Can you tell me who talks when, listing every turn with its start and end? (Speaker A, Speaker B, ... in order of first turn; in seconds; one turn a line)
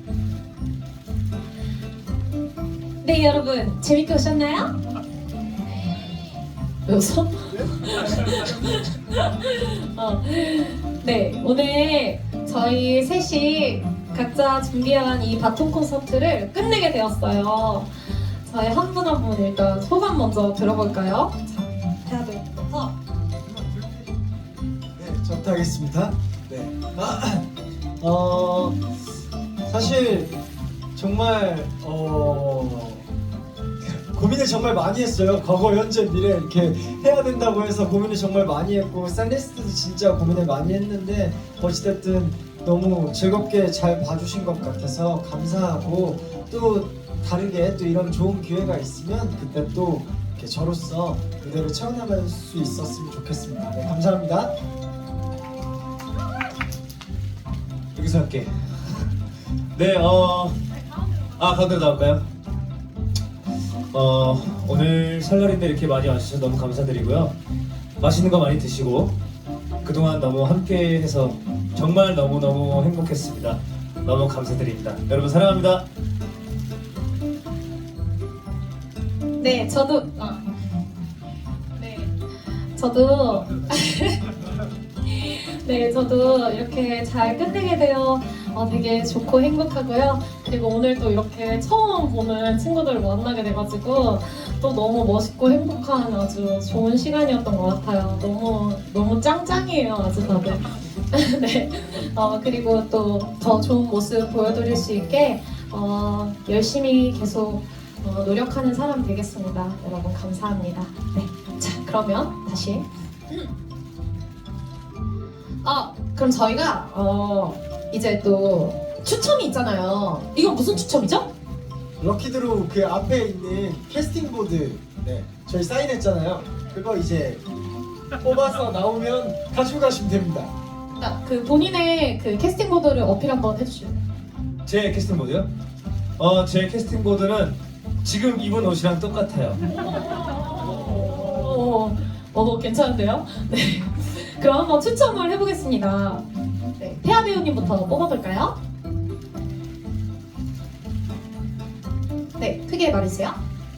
Speaker A: 3.0-4.8
Speaker A: 6.9-22.9
Speaker B: 23.6-23.9
Speaker B: 25.0-27.5
Speaker B: 28.0-28.8
Speaker B: 29.7-30.4
Speaker B: 31.0-33.1
Speaker B: 33.8-54.5
Speaker C: 58.0-59.1
Speaker C: 59.8-60.6
Speaker A: 60.7-61.5
Speaker C: 61.4-62.2
Speaker C: 63.9-67.3
Speaker C: 68.0-69.2
Speaker C: 69.8-75.9
Speaker A: 79.4-80.5
Speaker A: 81.8-84.2
Speaker A: 85.1-113.5
Speaker A: 115.6-121.3
Speaker B: 122.0-127.4
Speaker B: 128.2-130.5
Speaker A: 130.9-134.0
Speaker C: 134.7-135.5
Speaker C: 136.2-139.6
Speaker A: 139.8-146.2
Speaker A: 146.8-148.6
Speaker A: 152.4-153.4